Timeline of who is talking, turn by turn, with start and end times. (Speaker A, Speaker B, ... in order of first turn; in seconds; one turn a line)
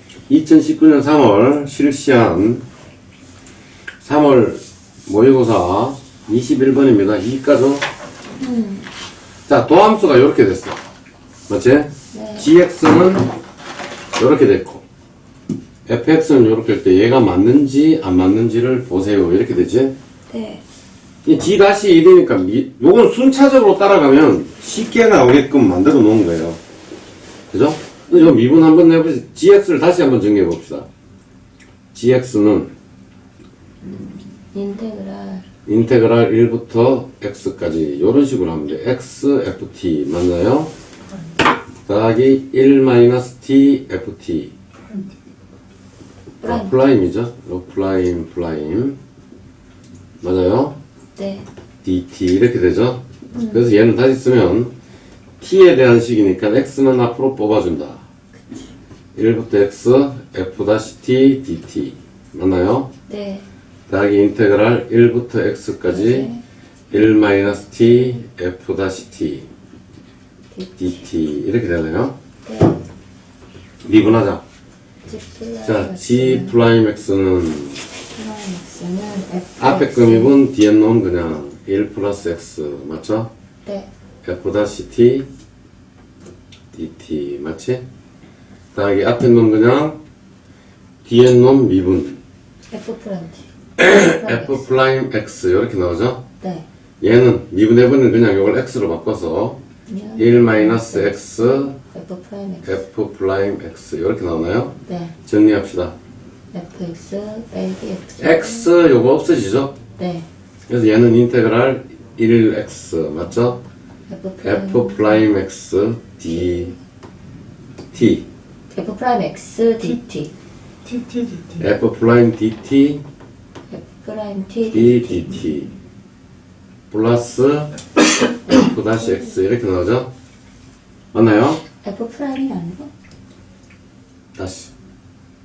Speaker A: 0.3-2.6
Speaker A: 4.0-7.8
Speaker B: 8.4-8.9
Speaker A: 9.5-10.8
Speaker A: 11.5-13.3
Speaker B: 12.1-12.5
Speaker A: 14.2-14.8
Speaker A: 15.9-19.9
Speaker B: 20.3-20.6
Speaker A: 21.2-26.6
Speaker A: 27.5-30.9
Speaker A: 31.9-32.7
Speaker B: 34.5-35.5
Speaker A: 35.6-40.7
Speaker A: 41.9-44.5
Speaker B: 46.4-46.7
Speaker A: 46.4-49.0
Speaker A: 50.2-50.8
Speaker B: 51.1-51.5
Speaker A: 51.8-54.7
Speaker B: 53.3-53.6
Speaker A: 55.4-58.0
Speaker A: 59.1-62.9
Speaker B: 63.1-63.5
Speaker A: 63.9-66.3
Speaker B: 65.9-66.4
Speaker A: 66.9-69.5
Speaker B: 70.5-71.0
Speaker A: 70.8-72.1
Speaker B: 72.5-72.8
Speaker A: 73.8-74.4
Speaker B: 75.1-76.5
Speaker A: 75.6-77.8
Speaker B: 78.1-80.3
Speaker A: 79.6-83.3
Speaker A: 84.2-85.3
Speaker A: 86.7-87.8
Speaker A: 88.7-90.0
Speaker A: 91.0-92.2
Speaker B: 92.7-94.7
Speaker A: 93.8-96.2
Speaker A: 97.0-99.6
Speaker B: 99.9-102.8
Speaker A: 100.2-101.7
Speaker A: 102.6-105.9
Speaker B: 104.8-105.1
Speaker B: 106.5-108.7
Speaker A: 108.2-109.7
Speaker B: 110.0-110.2
Speaker A: 110.7-113.6
Speaker B: 114.1-115.3
Speaker A: 114.4-116.7
Speaker A: 117.9-118.2
Speaker B: 118.7-120.3
Speaker A: 121.5-123.0
Speaker B: 123.7-125.2
Speaker A: 124.7-125.7
Speaker A: 126.9-127.7
Speaker A: 128.5-130.1
Speaker A: 131.1-131.6
Speaker B: 131.8-132.9
Speaker A: 134.3-134.7